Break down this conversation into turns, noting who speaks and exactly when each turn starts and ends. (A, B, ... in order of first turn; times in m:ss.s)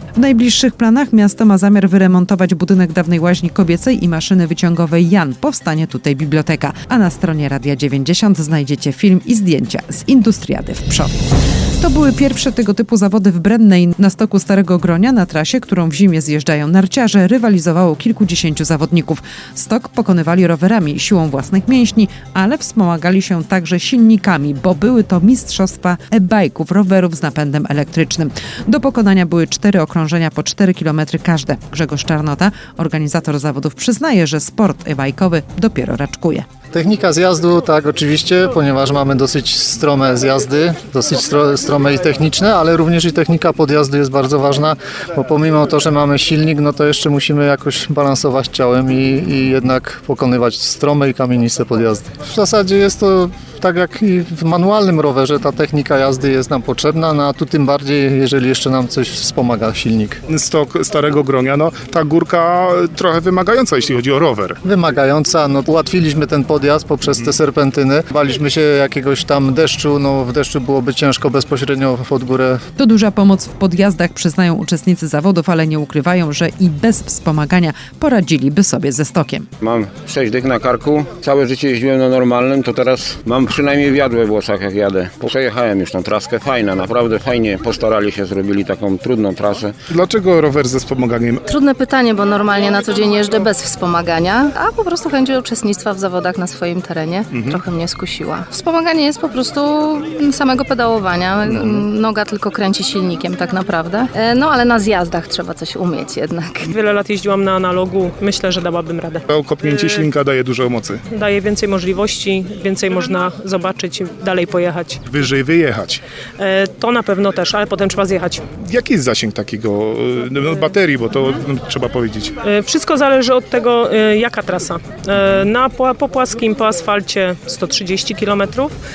0:00.2-0:36.5 A
0:36.7-1:00.2 B
1:00.3-1:04.6 C
1:04.6-1:12.6 B
1:12.8-1:19.5 A
1:19.6-1:29.7 D
1:29.9-1:31.5 C
1:31.5-1:46.6 E
1:37.3-1:37.6 C
1:41.5-1:41.8 C
1:46.7-1:50.1 F
1:49.3-1:51.0 C
1:51.1-1:55.0 F
1:55.1-1:56.0 C
1:56.4-1:58.4 F
1:58.7-2:02.3 C
2:00.5-2:00.8 F
2:02.4-2:08.7 F